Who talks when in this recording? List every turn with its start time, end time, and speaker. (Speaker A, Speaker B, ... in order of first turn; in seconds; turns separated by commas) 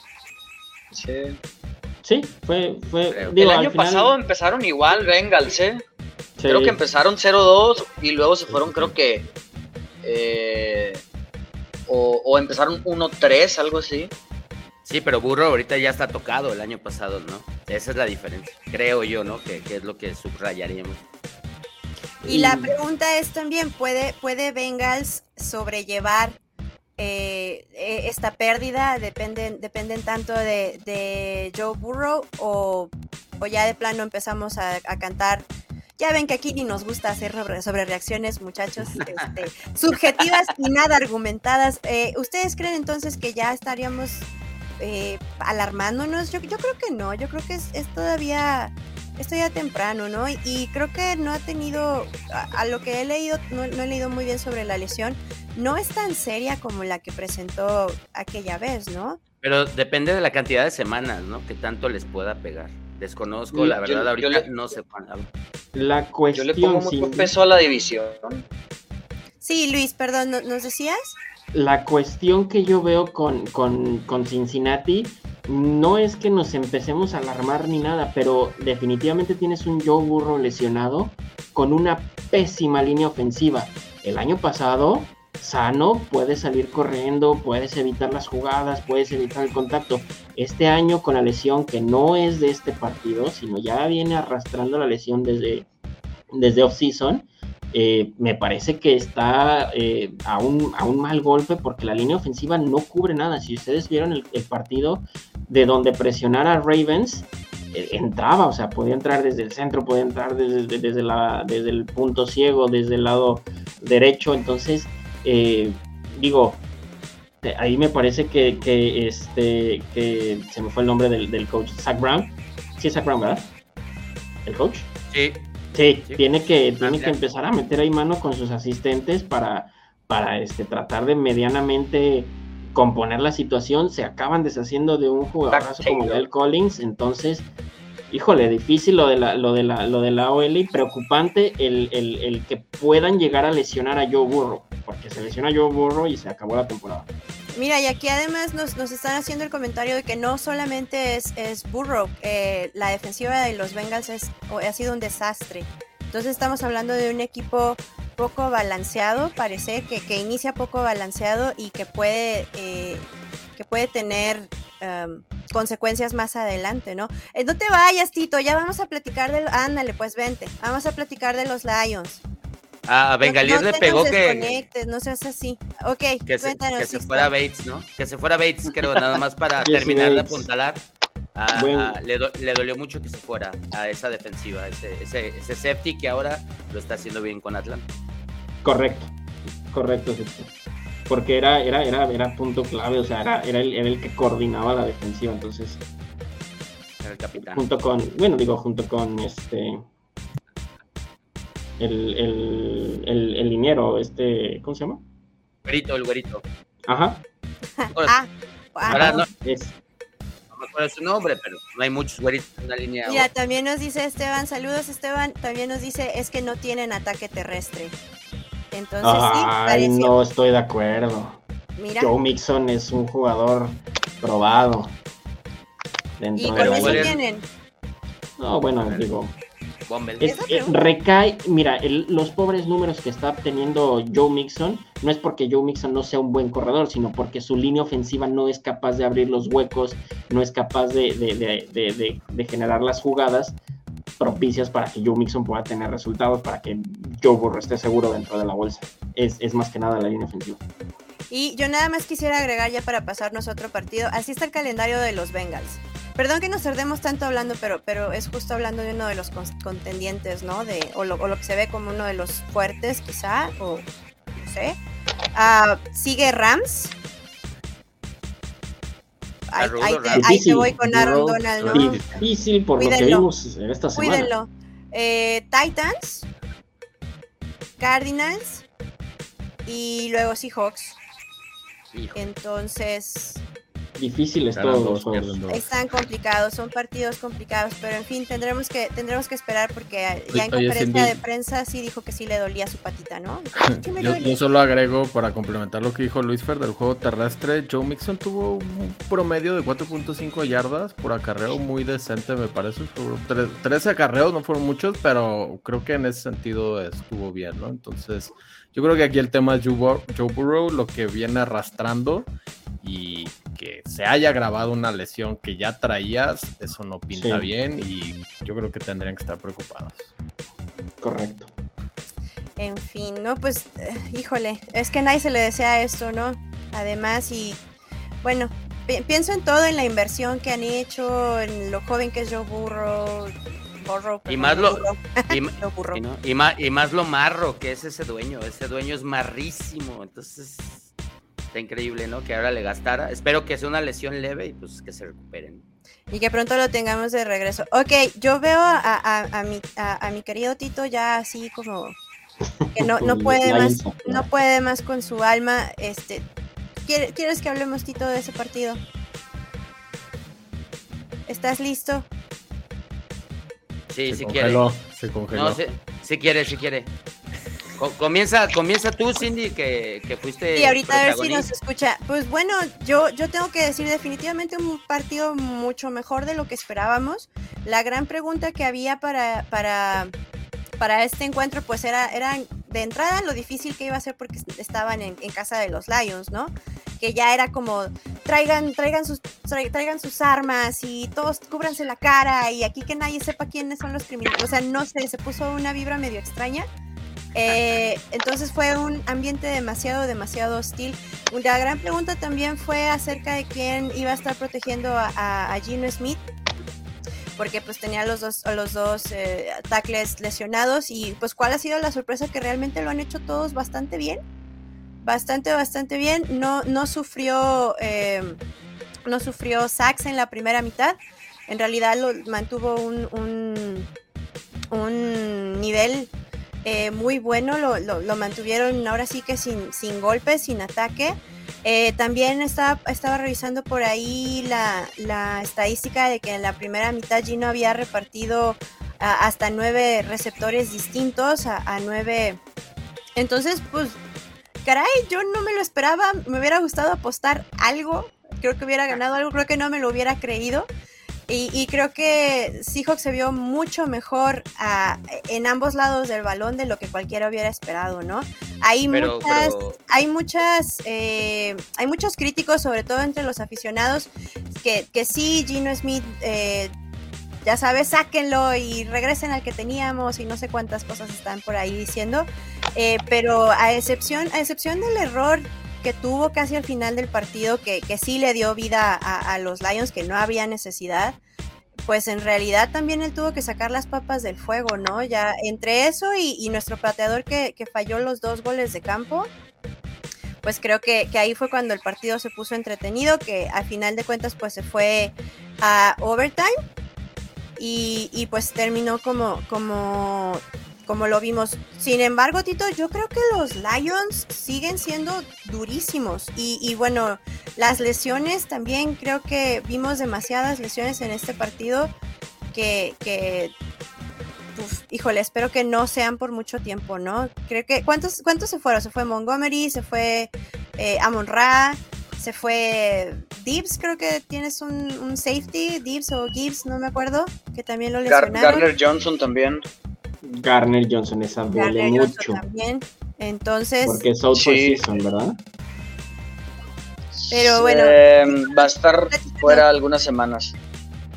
Speaker A: 0.9-1.4, Speaker B: 2.0-4.1, Speaker C: 3.1-3.4, Speaker A: 3.4-5.8, Speaker B: 6.4-6.8, Speaker A: 6.5-9.3, Speaker B: 8.5-8.9, Speaker A: 10.0-11.0, Speaker A: 11.9-14.1, Speaker C: 14.8-21.0, Speaker D: 22.2-26.4, Speaker B: 22.2-22.8, Speaker D: 27.0-35.5, Speaker D: 36.0-44.2, Speaker D: 44.8-59.2, Speaker C: 59.4-65.3, Speaker A: 63.6-64.5, Speaker B: 65.7-67.3, Speaker A: 66.3-68.4, Speaker D: 69.4-71.2, Speaker B: 71.5-95.7, Speaker B: 96.3-116.6, Speaker B: 117.4-123.5, Speaker B: 124.4-124.9, Speaker C: 125.1-125.5, Speaker B: 125.7-137.5, Speaker C: 126.0-127.2, Speaker A: 135.5-136.2, Speaker B: 138.1-147.1, Speaker D: 147.5-172.2, Speaker C: 172.8-174.7, Speaker D: 173.2-177.3, Speaker C: 176.2-187.9, Speaker B: 179.6-180.5, Speaker B: 181.5-181.9, Speaker B: 188.6-189.1, Speaker B: 189.7-190.5, Speaker B: 191.1-195.8, Speaker C: 197.0-197.7, Speaker B: 197.3-199.9, Speaker B: 201.8-205.0, Speaker C: 205.7-206.4, Speaker B: 206.9-207.2, Speaker D: 207.8-209.2, Speaker C: 207.9-208.2, Speaker B: 208.8-209.7, Speaker C: 208.9-209.3, Speaker C: 210.5-213.3, Speaker D: 213.0-217.9, Speaker D: 218.7-220.2, Speaker B: 219.0-221.4, Speaker D: 221.8-222.1, Speaker B: 222.0-225.0, Speaker B: 226.2-227.2, Speaker D: 226.4-227.4, Speaker C: 226.6-227.2, Speaker B: 228.4-229.4, Speaker C: 228.8-229.1, Speaker C: 229.9-230.3, Speaker B: 230.2-243.6, Speaker D: 230.2-230.8, Speaker B: 244.2-250.6, Speaker D: 251.3-264.8, Speaker D: 265.3-266.9, Speaker D: 269.5-272.0, Speaker C: 269.6-270.3, Speaker B: 270.1-270.8, Speaker E: 270.8-272.2, Speaker B: 271.7-274.3, Speaker D: 272.8-273.3, Speaker D: 273.9-276.2, Speaker D: 277.8-278.6, Speaker D: 279.6-281.0, Speaker C: 281.9-282.2, Speaker D: 282.1-283.4, Speaker B: 284.0-285.4, Speaker E: 284.5-285.7, Speaker D: 285.5-294.4, Speaker E: 290.3-291.2, Speaker E: 293.7-312.3, Speaker E: 312.8-320.1, Speaker B: 317.1-317.5, Speaker B: 321.0-321.5, Speaker D: 322.6-327.6, Speaker D: 328.2-336.0, Speaker C: 334.3-340.9, Speaker C: 341.5-345.6, Speaker D: 346.1-351.9, Speaker B: 352.6-354.3, Speaker D: 352.7-356.2, Speaker D: 356.9-358.8, Speaker D: 361.3-362.1, Speaker C: 363.9-364.6, Speaker E: 364.1-365.6, Speaker C: 365.3-366.9, Speaker C: 367.8-371.5, Speaker D: 370.6-380.1, Speaker D: 380.8-396.6, Speaker D: 397.3-406.2, Speaker D: 407.4-414.2, Speaker D: 415.0-418.4, Speaker D: 419.1-423.9, Speaker D: 424.7-426.1, Speaker D: 426.6-442.4, Speaker D: 443.1-444.0, Speaker D: 444.6-450.7, Speaker D: 451.3-466.7, Speaker C: 458.9-459.8, Speaker D: 467.4-481.2, Speaker D: 481.9-489.3, Speaker D: 490.4-496.5, Speaker D: 497.6-511.9, Speaker D: 512.5-513.5, Speaker D: 514.5-528.7, Speaker A: 528.1-529.6, Speaker B: 530.2-532.4, Speaker D: 531.5-534.0, Speaker B: 533.8-535.4, Speaker A: 534.3-534.8, Speaker A: 537.1-540.5, Speaker D: 537.3-539.6